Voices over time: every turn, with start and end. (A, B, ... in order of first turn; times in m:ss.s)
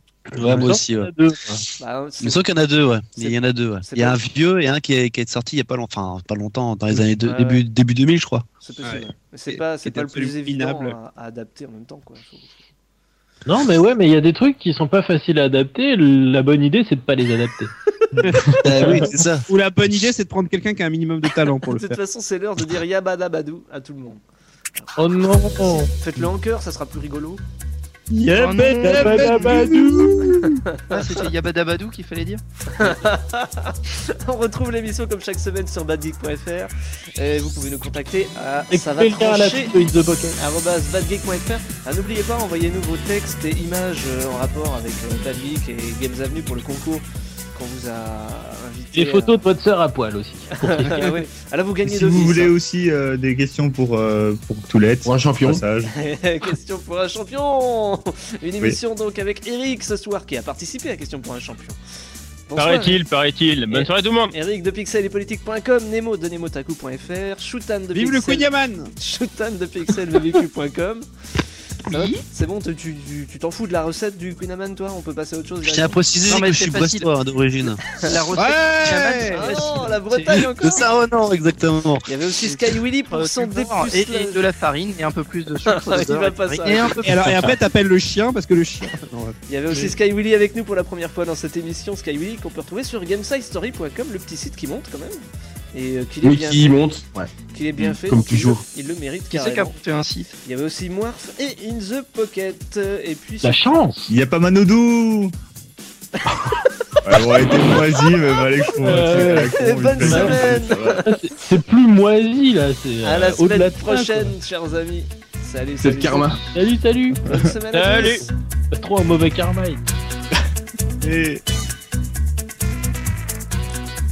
0:00.3-0:01.6 A
0:00.4-0:01.1 B
0:01.8-0:02.4 C
0:02.2-0:08.4 B
0:03.2-0:04.3 C
0:07.2-0:07.6 C
0:08.6-0:12.6 C
0:08.8-0:11.0 D
0:13.4-0:17.7 A
0:18.6-0:19.4 B
0:18.8-0:22.0 D
0:21.5-0:24.2 C
0:24.8-0:27.4 C
0:25.0-0:25.9 A
0:28.2-0:30.6 A
0:28.3-0:29.7 E
0:29.0-0:29.7 D
0:30.8-0:31.1 C
0:30.9-0:32.4 E
0:32.8-0:39.8 C
0:38.7-0:40.4 A
0:40.4-0:49.4 C
0:48.9-0:51.1 A
0:50.5-0:52.5 C
0:51.8-0:56.0 F
0:55.0-0:55.6 G
0:55.9-1:01.8 C
1:02.5-1:03.0 C
1:02.6-1:04.3 H
1:03.7-1:11.1 C
1:07.9-1:08.9 D
1:11.9-1:16.0 C
1:15.6-1:17.8 B
1:16.2-1:17.1 E
1:17.6-1:20.4 E
1:18.3-1:19.4 D
1:19.3-1:20.8 C
1:20.6-1:22.0 B
1:22.1-1:24.4 C
1:23.1-1:27.1 E
1:25.6-1:27.2 C
1:27.0-1:29.4 D
1:29.5-1:36.7 C
1:36.2-1:38.6 G
1:37.5-1:39.8 C
1:39.3-1:40.3 E
1:40.4-1:43.7 C
1:43.4-1:44.1 A
1:44.1-1:45.3 F
1:47.0-1:51.0 F
1:48.8-1:54.3 A
1:48.9-1:51.2 C
1:53.0-1:56.4 C
1:55.8-1:56.5 G
1:56.5-1:57.2 A
1:57.2-1:58.2 C
1:57.7-1:58.2 H
1:57.8-1:58.1 A
1:58.7-1:59.8 A
2:01.0-2:01.4 F